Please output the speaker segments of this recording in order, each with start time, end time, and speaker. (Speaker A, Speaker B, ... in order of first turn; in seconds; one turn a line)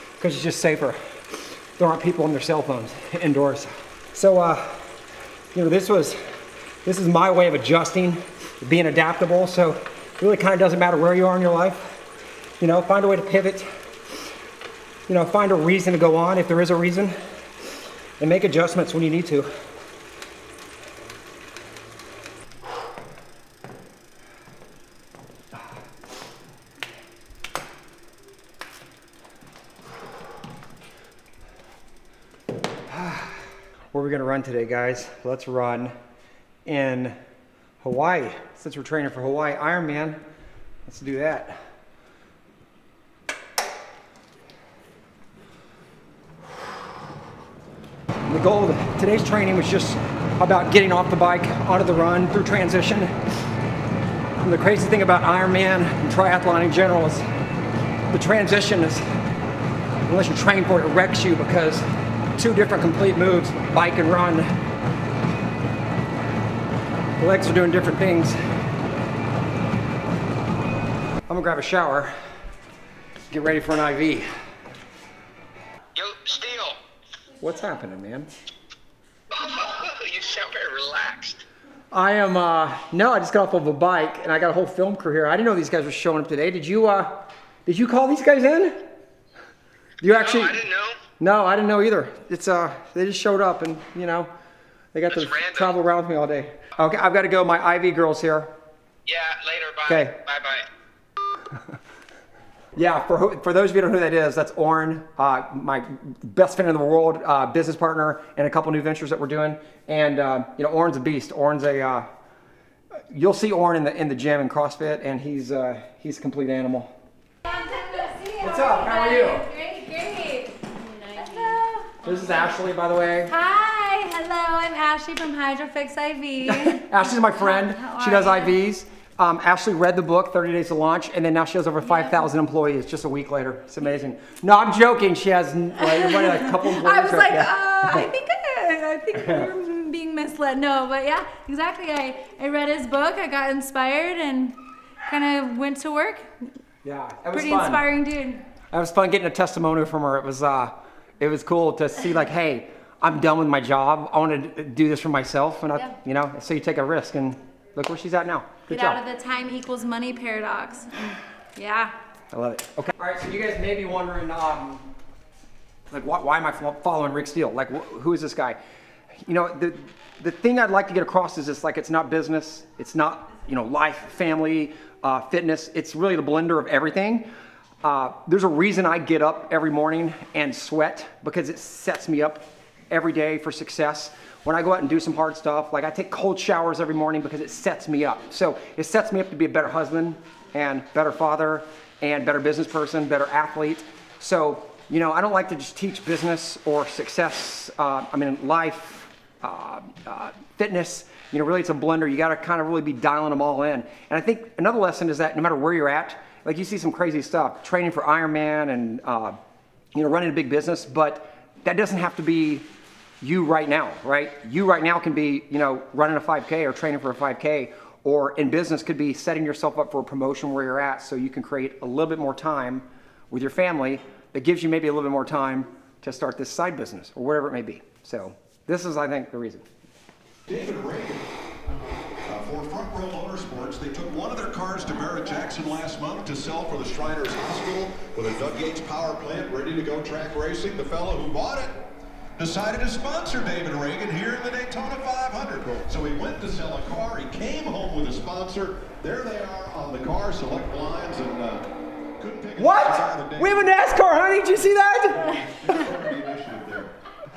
Speaker A: 0.2-1.0
Speaker A: 1.8-4.9
Speaker A: 5.5-6.2
Speaker A: 6.8-12.0
Speaker A: 12.6-13.7
Speaker A: 15.1-17.2
Speaker A: 18.2-19.5
Speaker A: 32.9-35.9
Speaker A: 36.6-37.2
Speaker A: 37.8-40.2
Speaker A: 40.9-41.6
Speaker A: 48.3-53.1
Speaker A: 54.4-57.3
Speaker A: 58.1-59.1
Speaker A: 60.1-64.5
Speaker A: 67.2-68.4
Speaker A: 71.3-72.1
Speaker A: 73.3-74.3
Speaker B: 76.0-76.8
Speaker A: 77.4-78.3
Speaker B: 79.4-81.4
Speaker A: 81.9-88.8
Speaker A: 90.0-90.7
Speaker B: 90.1-91.0
Speaker A: 91.2-94.3
Speaker A: 94.9-98.5
Speaker B: 95.1-95.7
Speaker B: 99.1-100.7
Speaker A: 99.9-100.2
Speaker A: 102.8-112.1
Speaker A: 113.1-116.9
Speaker C: 117.5-122.5
Speaker A: 118.4-119.5
Speaker A: 122.0-123.3
Speaker C: 123.3-128.6
Speaker A: 126.4-138.1
Speaker C: 131.8-132.2
Speaker C: 136.0-146.3
Speaker A: 146.8-147.8
Speaker C: 147.3-148.4
Speaker A: 148.7-159.0
Speaker C: 158.7-161.9
Speaker A: 162.3-164.9
Speaker A: 165.9-168.6
Speaker A: 169.2-177.3
Speaker A: 177.8-209.4
Speaker A: 209.9-212.7
Speaker A: 213.2-229.7
Speaker D: 230.5-231.3
Speaker D: 232.2-241.8
Speaker D: 242.4-251.7
Speaker D: 252.2-253.8
Speaker A: 252.6-255.4
Speaker D: 255.3-256.9